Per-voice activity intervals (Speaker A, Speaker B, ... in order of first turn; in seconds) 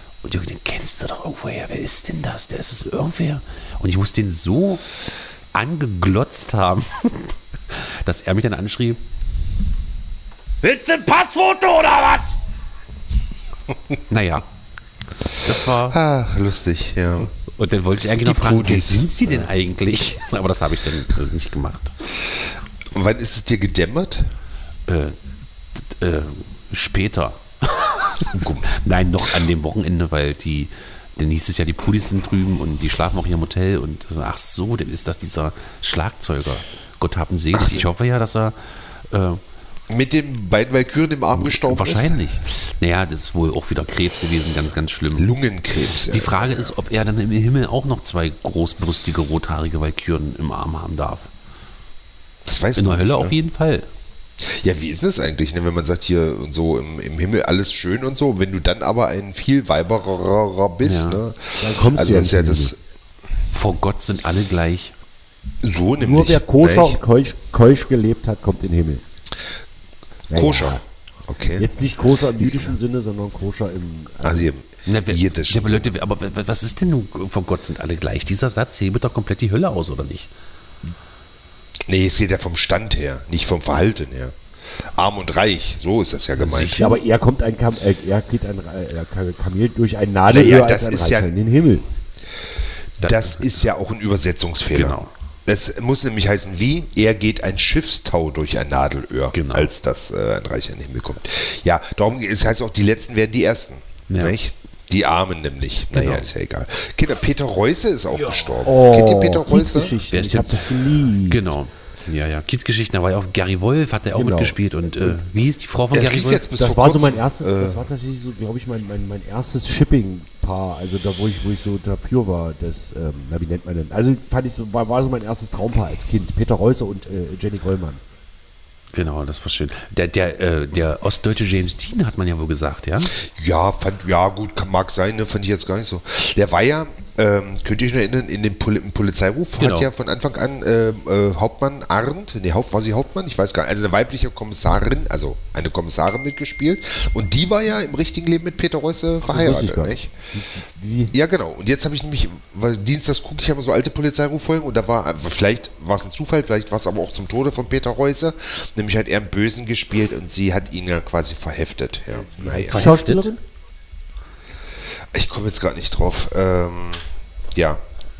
Speaker A: 0.2-4.8, 5.5-9.0, 10.6-12.3, 14.1-14.4, 15.4-16.0, 17.5-21.9, 24.9-25.2, 25.8-38.6, 39.1-39.4, 41.4-45.3, 46.0-51.3, 52.8-53.9, 60.8-61.2, 63.5-64.9, 74.8-80.3, 86.3-87.0, 93.0-93.4, 94.7-95.1, 99.3-99.7, 104.1-104.3, 105.9-106.3, 110.1-110.7, 111.2-116.4, 128.9-133.1, 139.6-139.9, 162.6-163.3
Speaker B: 15.9-17.3, 18.2-19.5, 22.9-24.3, 28.3-28.6, 37.5-37.9, 39.9-42.2, 45.1-46.7, 52.4-53.4, 54.4-62.8, 65.6-67.0, 70.3-71.7, 74.2-75.9, 81.9-84.3, 84.9-86.8, 90.3-91.3, 93.0-110.0, 115.9-117.9, 133.2-150.1, 151.1-162.9, 165.1-167.8
Speaker C: 61.6-62.7, 66.0-69.0, 70.3-70.8, 71.6-74.5, 86.7-91.8, 108.1-111.5, 114.1-115.2, 116.5-128.0, 149.2-151.2, 162.4-163.4